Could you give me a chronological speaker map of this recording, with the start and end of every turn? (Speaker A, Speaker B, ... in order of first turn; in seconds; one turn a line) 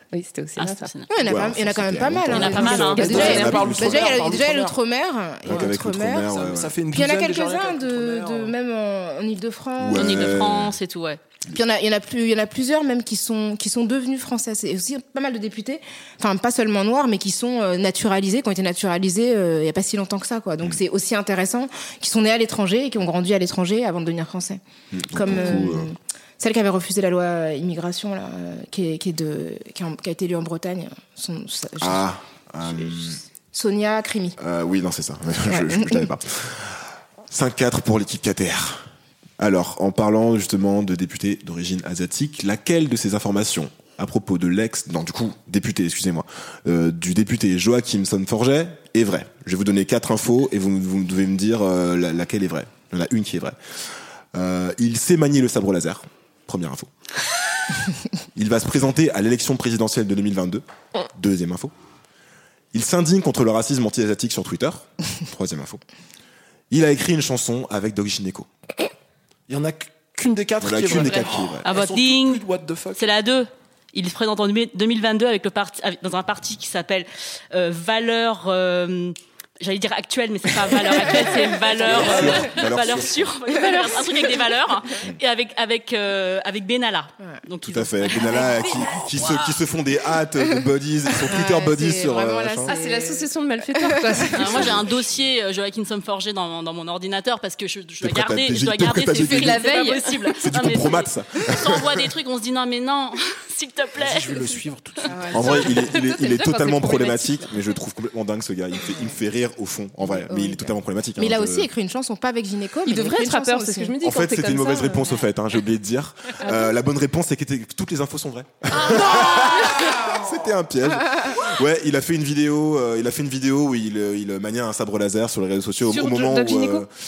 Speaker A: 0.1-0.9
Speaker B: 0.6-1.1
Speaker C: 1.1-6.3
Speaker D: 1.2-4.4
Speaker B: 2.3-3.4
Speaker E: 2.6-4.8
Speaker A: 2.9-3.9
Speaker D: 5.5-6.8
Speaker E: 6.3-8.5
Speaker C: 6.9-10.4
Speaker D: 9.8-10.8
Speaker B: 9.9-11.2
Speaker C: 11.5-24.6
Speaker D: 24.9-25.9
Speaker C: 25.1-32.0
Speaker D: 31.8-33.2
Speaker C: 32.6-34.4
Speaker D: 34.4-38.9
Speaker C: 35.5-36.1
Speaker D: 39.4-53.6
Speaker D: 54.3-56.9
Speaker D: 58.4-61.7
Speaker D: 62.7-65.8
Speaker D: 66.7-68.5
Speaker E: 69.5-73.0
Speaker D: 70.6-71.7
Speaker B: 70.9-72.4
Speaker B: 73.0-89.6
Speaker C: 81.0-81.5
Speaker E: 81.8-82.4
Speaker D: 81.8-83.3
Speaker C: 83.5-84.5
Speaker D: 87.6-92.7
Speaker C: 91.2-94.8
Speaker A: 92.7-94.7
Speaker B: 94.3-104.6
Speaker D: 94.5-94.8
Speaker D: 98.0-99.7
Speaker A: 99.1-100.3
Speaker D: 100.4-102.1
Speaker E: 104.0-105.7
Speaker C: 105.1-105.8
Speaker D: 105.3-111.7
Speaker A: 106.2-107.4
Speaker C: 110.3-114.0
Speaker A: 112.9-115.2
Speaker D: 114.0-126.9
Speaker A: 116.4-116.8
Speaker C: 119.6-120.2
Speaker A: 125.9-126.9